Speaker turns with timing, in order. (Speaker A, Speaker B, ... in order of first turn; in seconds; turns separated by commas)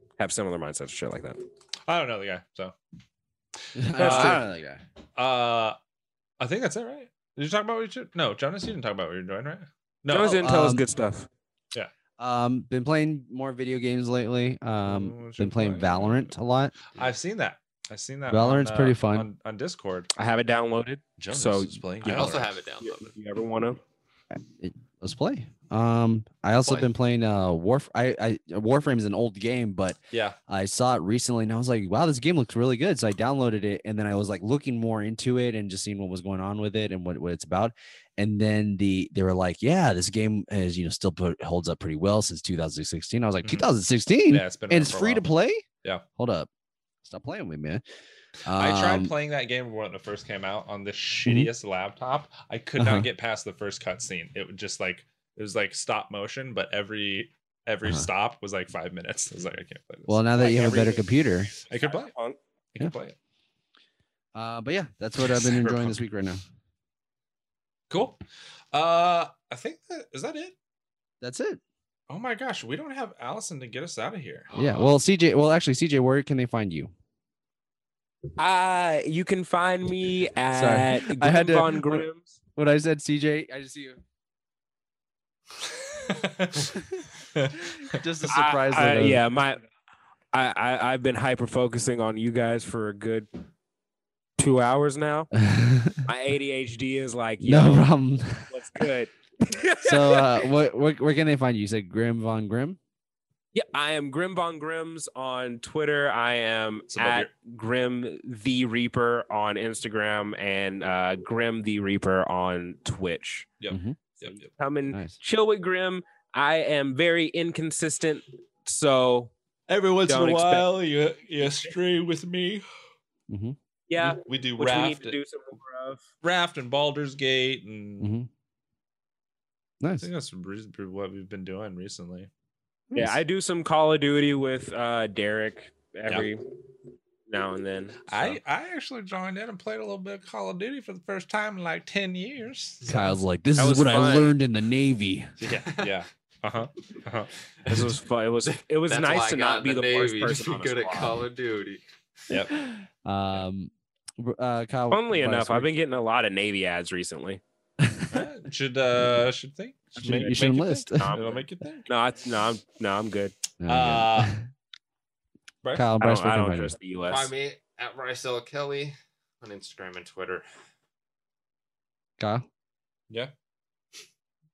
Speaker A: 0.2-1.4, Speaker B: 1.9-2.7, Speaker C: 3.7-4.8, Speaker B: 3.9-4.4, Speaker A: 4.0-4.4, Speaker B: 5.2-5.8, Speaker B: 6.4-10.4, Speaker A: 10.1-11.3, Speaker C: 10.2-10.8, Speaker C: 12.2-16.7, Speaker B: 14.8-16.3, Speaker B: 16.9-20.1, Speaker C: 18.3-19.3, Speaker A: 20.1-23.8, Speaker B: 21.2-22.6, Speaker D: 22.0-23.1, Speaker C: 24.4-45.6, Speaker B: 30.1-30.4, Speaker B: 44.3-45.2, Speaker C: 46.2-46.5, Speaker C: 47.0-47.8, Speaker C: 48.5-49.1, Speaker B: 48.5-61.0, Speaker C: 52.8-53.1, Speaker C: 60.1-61.5, Speaker A: 60.4-61.0, Speaker B: 61.7-62.1, Speaker A: 61.7-62.4, Speaker B: 62.7-63.1, Speaker C: 64.3-66.4, Speaker B: 65.2-66.0, Speaker B: 67.9-68.2, Speaker B: 68.7-70.5, Speaker C: 71.2-71.6, Speaker B: 72.1-74.5, Speaker C: 74.5-76.9, Speaker A: 78.3-82.3, Speaker C: 80.5-82.0, Speaker C: 82.5-84.0, Speaker B: 85.9-86.8, Speaker C: 87.8-89.2, Speaker A: 88.3-89.6, Speaker A: 90.3-93.3, Speaker A: 94.4-95.3, Speaker C: 95.3-96.0, Speaker A: 96.0-97.9, Speaker C: 97.4-98.5, Speaker A: 98.5-100.5, Speaker C: 99.8-102.8, Speaker A: 103.5-113.5, Speaker B: 106.9-107.3, Speaker B: 113.6-114.5, Speaker C: 113.7-114.0, Speaker A: 114.4-119.3, Speaker C: 114.9-115.2, Speaker B: 119.7-122.6, Speaker A: 120.0-120.7, Speaker A: 121.4-121.7, Speaker C: 123.3-123.5, Speaker A: 123.9-126.0, Speaker B: 124.0-125.2, Speaker B: 126.2-128.1, Speaker C: 128.0-128.3, Speaker C: 129.8-130.1, Speaker B: 130.0-132.3, Speaker A: 132.9-136.5, Speaker A: 137.3-138.4, Speaker B: 138.1-142.9, Speaker C: 142.8-145.3, Speaker D: 143.6-144.3, Speaker B: 145.4-147.3, Speaker D: 145.5-145.9, Speaker A: 147.7-151.2, Speaker D: 148.9-151.8, Speaker C: 152.7-155.7, Speaker A: 154.9-157.4, Speaker C: 157.8-158.2, Speaker B: 158.1-161.9, Speaker C: 160.0-161.1, Speaker A: 161.0-163.3, Speaker C: 163.6-164.4, Speaker B: 163.7-164.3, Speaker B: 165.6-165.9, Speaker C: 165.7-166.7, Speaker A: 166.0-167.3, Speaker D: 167.1-170.4, Speaker C: 172.2-172.4